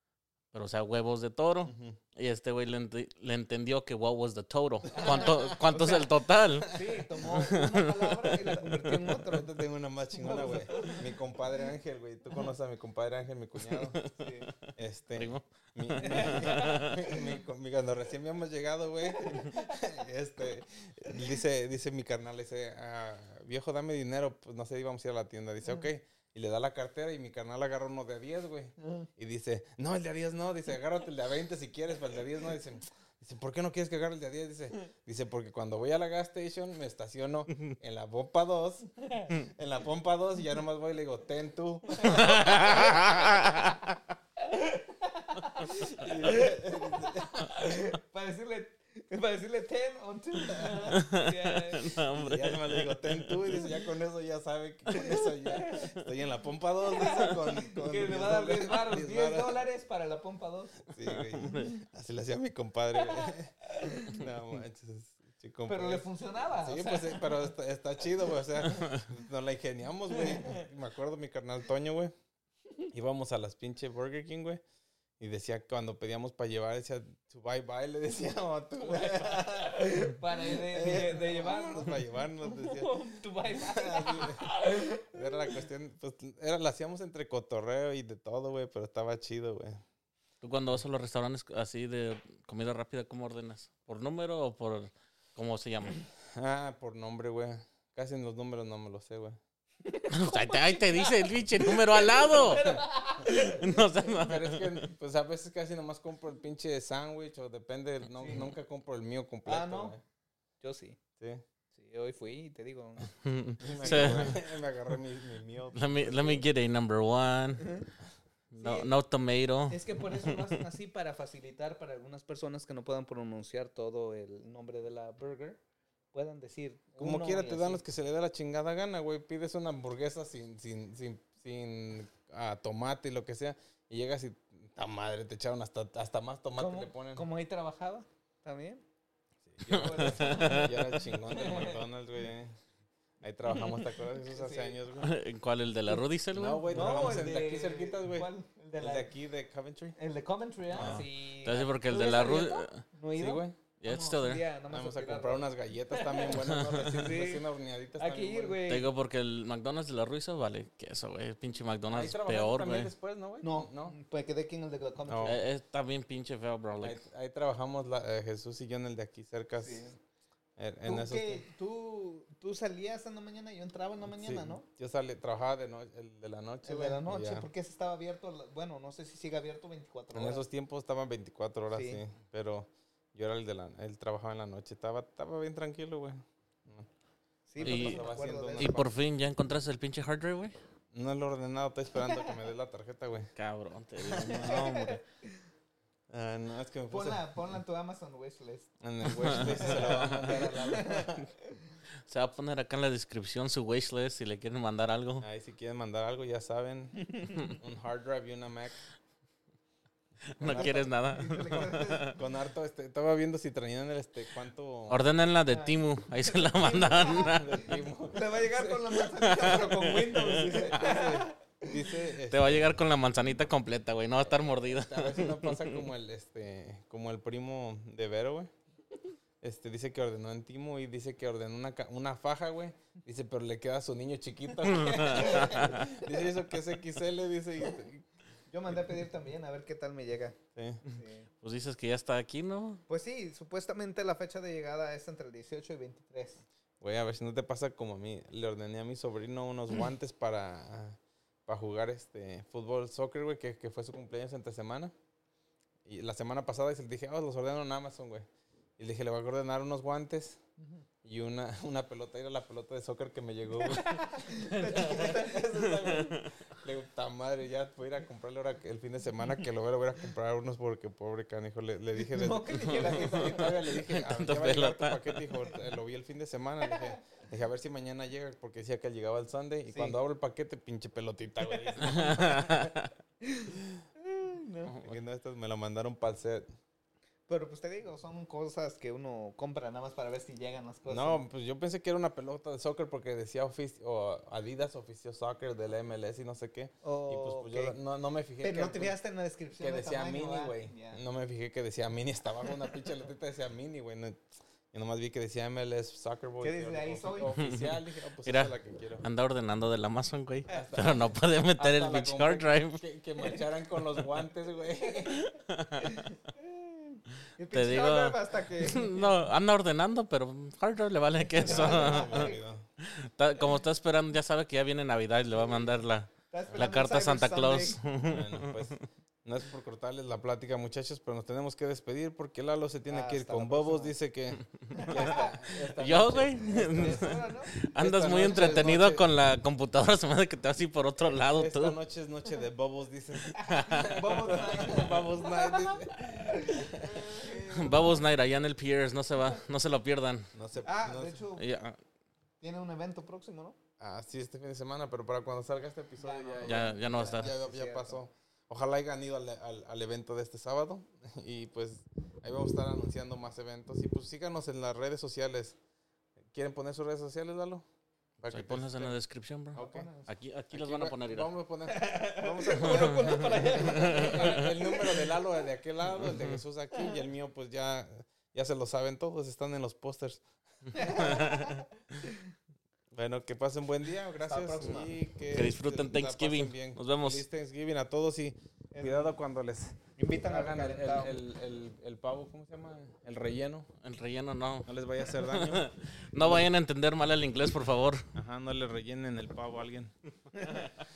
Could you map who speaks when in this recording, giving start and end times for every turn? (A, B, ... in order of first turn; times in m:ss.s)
0:00.5-0:08.7 A
0:01.6-0:02.0 B
0:04.9-0:05.3 C
0:05.0-0:06.1 B
0:06.6-0:09.5 C
0:09.0-0:14.0 B
0:10.2-0:11.0 C
0:13.6-0:17.2 A
0:14.2-0:14.5 C
0:14.8-0:43.2 B
0:16.0-0:17.2 C
0:19.1-0:19.8 C
0:28.8-0:29.1 C
0:42.0-0:43.2 C
0:42.1-0:43.8 A
0:44.4-0:52.0 C
0:45.7-0:47.5 B
0:50.5-0:50.8 B
0:50.9-0:53.4 A
0:52.1-0:59.6 B
0:54.9-0:55.8 C
0:56.9-1:00.9 C
1:00.9-1:12.1 B
1:01.2-1:01.8 A
1:02.9-1:04.2 C
1:05.7-1:07.5 C
1:08.7-1:09.0 A
1:10.1-1:10.6 C
1:12.9-1:14.6 B
1:15.2-1:22.9 B
1:18.8-1:25.6 C
1:23.5-1:29.8 B
1:30.4-1:36.0 A
1:36.3-1:39.4 B
1:39.8-1:44.1 C
1:40.1-1:42.7 A
1:42.5-1:42.8 B
1:43.2-1:44.9 A
1:44.1-1:50.0 B
1:48.2-1:48.4 C
1:49.4-1:50.0 C
1:50.6-1:51.0 C
1:51.7-1:53.1 C
1:53.1-1:54.4 A
1:53.6-1:56.4 B
1:53.8-1:54.4 C
1:55.7-1:57.8 A
1:57.6-1:57.9 C
1:58.5-2:00.6 A
1:58.6-1:58.9 C
1:59.7-2:05.6 C
2:06.1-2:07.8 C
2:07.0-2:17.2 B
2:16.5-2:18.8 C
2:19.4-2:22.6 B
2:19.7-2:20.8 A
2:19.7-2:21.8 C
2:23.2-2:25.1 B
2:23.5-2:24.8 C
2:25.0-2:27.3 A
2:26.3-2:30.0 B
2:26.7-2:29.1 C
2:30.0-2:37.4 C
2:30.7-2:31.0 B
2:30.7-2:32.8 A
2:33.2-2:33.6 B
2:33.8-2:34.4 A
2:34.7-2:38.6 B
2:36.4-2:37.0 A
2:38.0-2:38.9 C
2:38.7-2:42.9 A
2:41.9-2:44.0 B
2:43.4-2:45.4 C
2:45.1-2:45.4 B
2:45.2-2:47.0 A
2:46.8-2:49.9 B
2:49.6-2:50.0 C
2:50.6-2:51.4 B
2:50.8-2:54.6 C
2:54.1-2:57.5 B
2:56.6-3:00.4 C
3:00.1-3:06.9 B
3:01.7-3:02.0 C
3:07.5-3:08.8 C
3:07.6-3:08.9 B
3:07.6-3:10.5 A
3:10.9-3:13.3 B
3:12.0-3:12.4 C
3:13.4-3:15.0 A
3:14.1-3:15.4 C
3:14.2-3:14.6 B
3:16.1-3:17.3 B
3:16.9-3:21.7 C
3:18.8-3:21.3 B
3:19.1-3:20.3 A
3:22.0-3:25.2 A
3:25.2-3:28.8 B
3:27.0-3:27.5 C
3:30.4-3:32.2 A
3:30.4-3:30.9 B
3:30.4-3:32.2 C
3:32.1-3:35.1 B
3:34.9-3:37.7 A
3:35.5-3:41.8 C
3:37.1-3:39.0 B
3:39.0-3:40.9 A
3:40.1-3:42.8 B
3:42.3-3:45.9 A
3:44.2-3:48.5 B
3:49.4-3:58.0 B
3:54.6-3:56.3 C
3:54.7-3:55.8 A
3:58.5-4:00.4 C
3:58.7-3:59.0 B
4:00.6-4:00.8 B
4:00.9-4:01.3 C
4:00.9-4:02.8 A
4:02.9-4:06.4 C
4:06.8-4:14.9 B
4:15.8-4:18.3 B
4:18.8-4:20.4 B
4:21.0-4:42.7 B
4:23.6-4:26.1 C
4:25.6-4:26.3 A
4:32.0-4:33.8 C
4:32.7-4:35.4 A
4:36.6-4:37.0 C
4:39.7-4:40.0 C
4:41.4-4:41.9 C
4:41.8-4:42.9 A
4:43.2-4:44.7 C
4:44.7-4:46.5 B
4:47.3-4:51.2 C
4:50.9-4:58.9 B
4:56.8-4:57.8 C
4:58.4-5:01.0 C
4:59.6-5:09.0 B
5:06.4-5:07.4 C
5:07.3-5:12.8 A
5:10.5-5:15.3 B
5:14.8-5:15.3 C
5:15.2-5:16.1 A
5:15.8-5:19.2 C
5:17.5-5:28.7 A
5:21.3-5:22.4 C
5:21.4-5:22.6 B
5:25.4-5:25.7 C
5:26.3-5:27.8 C
5:28.0-5:37.2 B
5:32.9-5:33.9 C
5:34.7-5:35.5 C
5:34.8-5:41.8 A
5:36.4-5:37.5 C
5:37.7-5:39.0 B
5:41.0-5:47.5 B
5:43.3-5:48.0 C
5:43.4-5:44.0 A
5:47.4-5:50.3 A
5:50.3-5:51.2 B
5:50.6-5:51.4 C
5:51.4-5:51.8 A
5:52.4-5:53.6 C
5:53.8-6:05.6 B
5:56.0-5:58.0 C
5:56.4-5:57.3 A
6:06.3-6:07.6 B
6:08.2-6:09.0 B
6:08.3-6:11.3 A
6:09.5-6:09.9 B
6:09.5-6:10.1 C
6:10.5-6:21.3 B
6:11.7-6:15.2 C
6:12.6-6:14.5 A
6:16.0-6:16.4 A
6:16.7-6:17.0 C
6:20.7-6:22.2 C
6:21.0-6:21.6 A
6:22.9-6:33.7 B
6:24.3-6:25.0 C
6:25.3-6:27.2 A
6:28.7-6:29.2 C
6:30.0-6:31.2 C
6:33.8-6:38.0 A
6:34.6-6:36.5 B
6:38.1-6:39.9 B
6:40.3-6:40.7 C